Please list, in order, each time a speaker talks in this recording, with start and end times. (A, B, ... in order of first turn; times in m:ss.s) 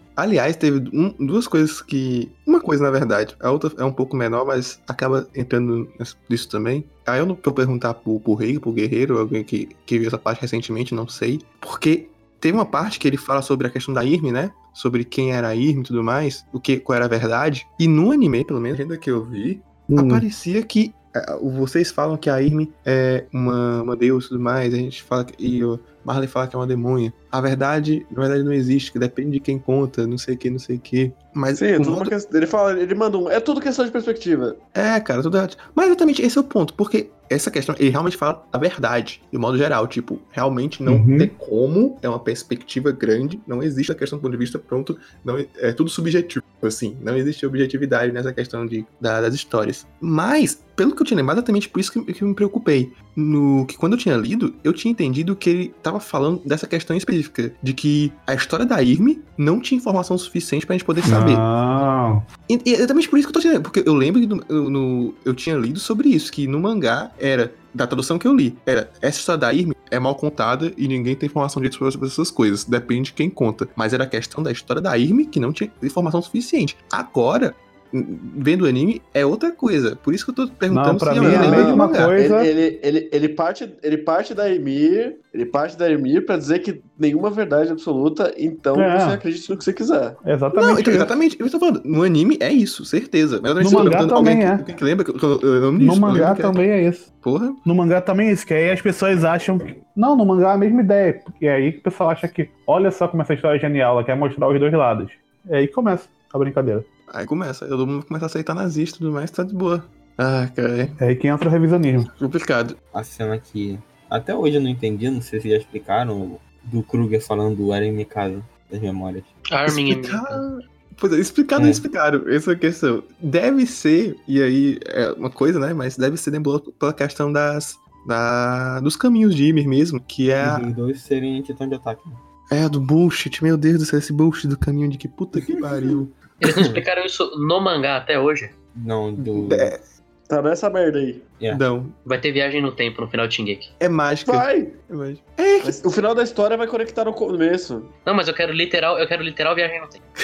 0:00.2-0:32.1 A
0:19.9-0:20.2 B
0:31.5-0:34.6 C
0:34.7-1:01.4 A
0:40.8-0:41.3 B
1:01.0-1:02.2 B
1:02.5-1:22.2 A
1:20.7-1:22.5 B
1:21.2-1:30.2 C
1:28.7-1:29.2 B
1:30.2-1:31.1 B
1:30.6-1:36.6 A
1:33.6-1:34.6 B
1:35.8-1:37.0 B
1:37.2-1:37.6 A
1:37.6-1:46.8 B
1:47.1-1:51.0 A
1:51.0-1:52.1 B
1:52.1-1:52.8 A
1:52.9-1:59.3 D
1:59.5-2:00.4 E
1:59.7-2:10.7 A
2:01.6-2:01.8 D
2:10.4-2:12.2 D
2:12.5-2:16.2 A
2:16.4-2:18.5 E
2:16.5-2:16.8 D
2:18.7-2:19.7 D
2:19.2-2:19.8 A
2:20.3-2:21.3 C
2:21.5-2:22.0 A
2:22.0-2:23.7 E
2:23.8-2:25.9 A
2:24.2-2:24.8 C
2:25.6-2:27.9 C
2:28.0-2:30.0 E